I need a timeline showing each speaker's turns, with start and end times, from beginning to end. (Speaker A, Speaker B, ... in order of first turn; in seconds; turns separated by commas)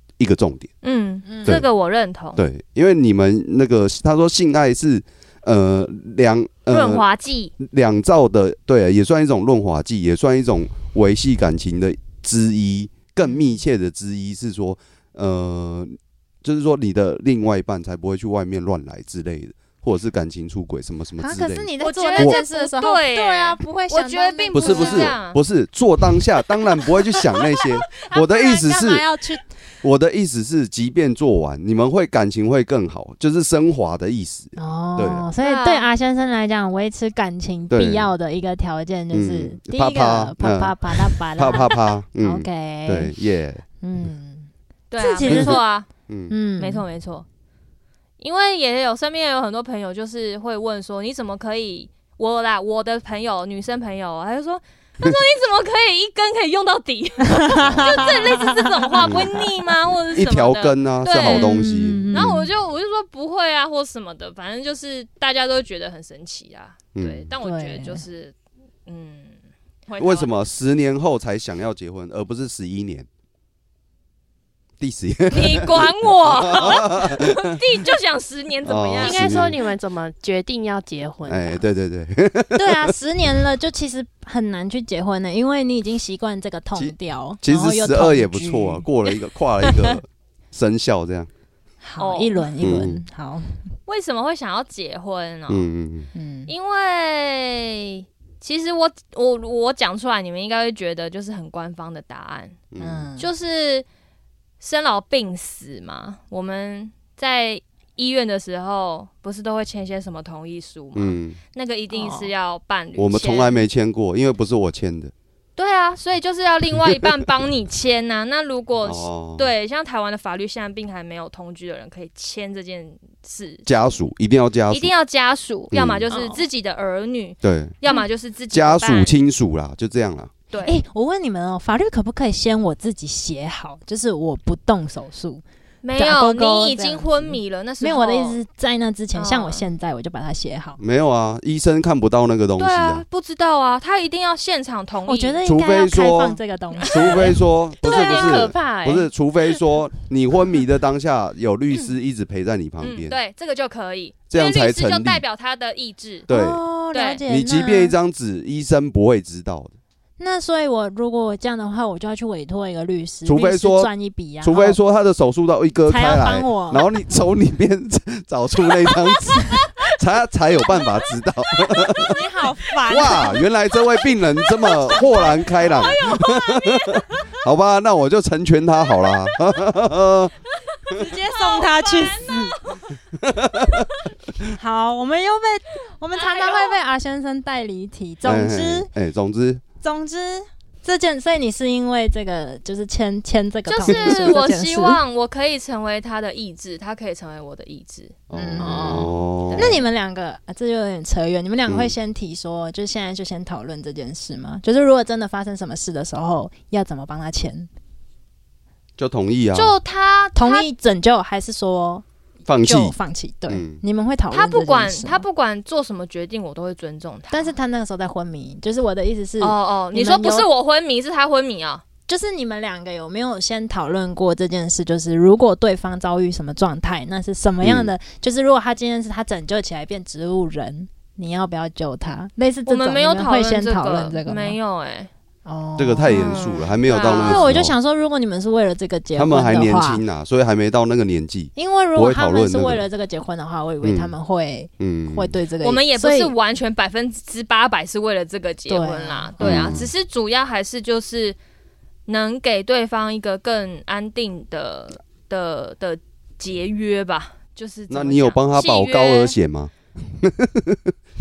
Speaker A: 0.2-0.7, Speaker B: 0.8-2.4, Speaker C: 1.3-1.6, Speaker A: 2.4-7.0, Speaker B: 6.7-7.5, Speaker A: 7.6-22.4, Speaker C: 21.2-25.1, Speaker B: 21.8-25.4, Speaker A: 24.5-29.1, Speaker C: 28.0-29.4, Speaker A: 29.8-35.2, Speaker C: 34.6-43.1, Speaker B: 35.4-35.9, Speaker A: 37.7-38.1, Speaker A: 39.1-43.6, Speaker C: 43.8-45.6, Speaker B: 44.9-45.9, Speaker A: 45.3-46.3, Speaker C: 46.3-46.9, Speaker B: 46.6-47.3, Speaker B: 48.2-68.3, Speaker C: 57.3-58.9, Speaker A: 57.6-58.2, Speaker A: 59.0-59.4, Speaker A: 60.1-62.4, Speaker C: 61.2-62.5, Speaker A: 66.9-67.3, Speaker C: 67.4-68.0, Speaker B: 68.9-70.3, Speaker A: 70.0-73.1, Speaker A: 74.8-77.6, Speaker B: 75.3-79.5, Speaker A: 78.6-79.5, Speaker D: 79.0-81.6, Speaker A: 81.3-82.9, Speaker C: 82.5-88.9, Speaker A: 86.8-91.3, Speaker C: 91.8-93.8, Speaker B: 92.0-92.5, Speaker A: 92.6-93.0, Speaker B: 93.9-95.7, Speaker A: 95.5-96.1, Speaker C: 96.1-96.5, Speaker B: 96.5-102.6, Speaker A: 102.7-103.1, Speaker C: 102.8-103.3, Speaker B: 103.2-103.8, Speaker B: 104.6-113.6, Speaker A: 111.0-111.4, Speaker D: 111.9-112.3, Speaker A: 113.0-115.1, Speaker B: 115.6-123.7, Speaker A: 118.8-119.5, Speaker A: 123.7-124.9, Speaker B: 124.7-129.1, Speaker A: 125.7-126.1, Speaker D: 126.1-126.5, Speaker A: 127.4-127.8, Speaker A: 128.5-130.3, Speaker B: 130.5-130.8, Speaker C: 130.6-135.4, Speaker B: 135.8-138.4, Speaker C: 136.0-140.8, Speaker B: 139.1-139.7, Speaker A: 140.8-143.0, Speaker B: 142.6-145.4, Speaker C: 145.1-147.4, Speaker A: 145.4-153.2, Speaker D: 147.8-149.1, Speaker B: 147.8-148.5, Speaker B: 152.8-156.3, Speaker A: 154.3-155.2, Speaker A: 156.3-156.6, Speaker C: 156.3-157.9, Speaker B: 156.9-157.2, Speaker A: 157.3-159.8, Speaker C: 160.2-164.8, Speaker A: 163.2-163.9, Speaker A: 164.4-172.2, Speaker C: 165.9-166.8, Speaker C: 172.0-173.4, Speaker A: 172.9-180.3, Speaker C: 174.8-176.4, Speaker B: 174.8-176.7, Speaker B: 180.9-182.9, Speaker C: 180.9-182.6, Speaker A: 183.2-183.8, Speaker C: 184.6-188.9, Speaker B: 186.1-186.8, Speaker A: 188.2-189.6, Speaker C: 189.8-195.0, Speaker B: 193.7-198.2, Speaker A: 193.9-194.4, Speaker A: 198.3-199.8, Speaker C: 198.3-207.7, Speaker D: 198.6-199.1, Speaker B: 199.5-199.8, Speaker A: 201.7-201.9, Speaker A: 209.0-209.8, Speaker B: 209.5-210.7, Speaker C: 210.3-212.1, Speaker A: 212.5-212.9, Speaker C: 212.6-215.2, Speaker A: 213.5-213.8, Speaker B: 214.3-217.5, Speaker C: 217.3-220.5, Speaker B: 219.4-221.8, Speaker C: 222.1-234.6, Speaker A: 227.6-227.9, Speaker B: 232.7-235.1, Speaker C: 235.5-236.4, Speaker A: 235.8-237.8, Speaker B: 236.1-237.6, Speaker C: 237.1-240.0, Speaker A: 239.2-242.8, Speaker C: 241.6-246.3, Speaker A: 243.8-244.1, Speaker A: 244.8-245.3, Speaker B: 245.6-251.4, Speaker C: 248.7-249.8, Speaker A: 249.4-249.9, Speaker B: 252.1-259.4, Speaker A: 257.9-260.9